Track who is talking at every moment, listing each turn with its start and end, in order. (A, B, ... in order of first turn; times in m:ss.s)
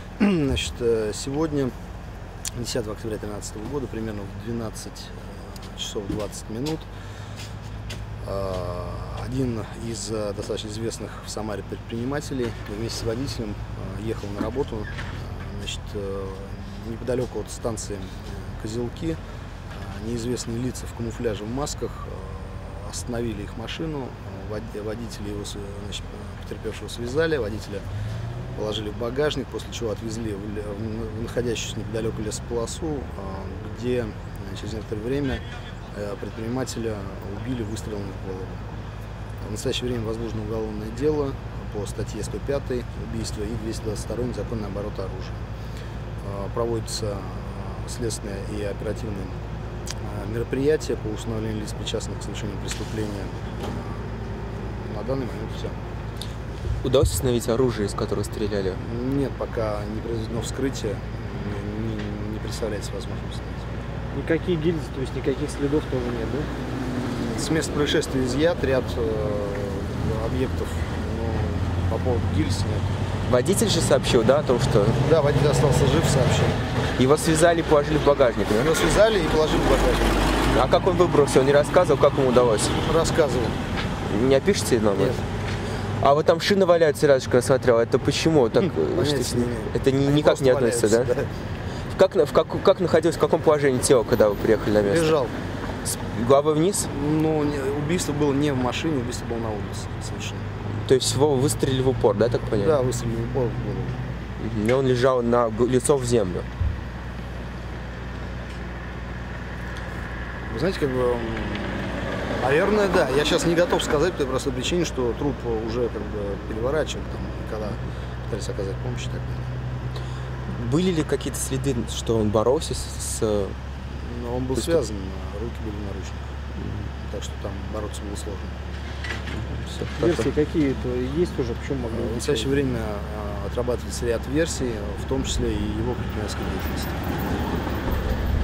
0:00.2-0:01.7 A
0:02.6-0:06.9 A
0:08.2-0:27.9 A
0:28.6-0:38.7 A
0:39.4-0:45.4 A
0:46.2-0:49.4 A
0:50.0-0:55.8 A
0:56.8-0:58.8 B
0:58.8-1:03.8 A
1:04.1-1:06.5 C
1:07.2-1:12.9 A
1:13.3-1:15.0 B
1:15.0-1:16.6 A
1:17.0-1:18.7 B
1:18.6-1:20.4 A
1:20.5-1:22.8 B
1:22.8-1:23.6 A
1:24.1-1:25.2 B
1:26.0-1:31.1 B
1:28.7-1:31.3 A
1:31.9-1:35.2 B
1:34.8-1:35.4 A
1:35.8-1:36.9 B
1:36.9-1:40.6 A
1:40.8-1:42.8 B
1:42.5-1:44.0 A
1:44.4-1:46.5 B
1:50.5-1:59.5 A
2:00.5-2:03.6 B
2:03.9-2:06.4 A
2:04.6-2:04.8 B
2:06.6-2:06.8 B
2:07.0-2:08.6 A
2:09.3-2:10.3 B
2:10.0-2:12.5 C
2:11.9-2:17.2 A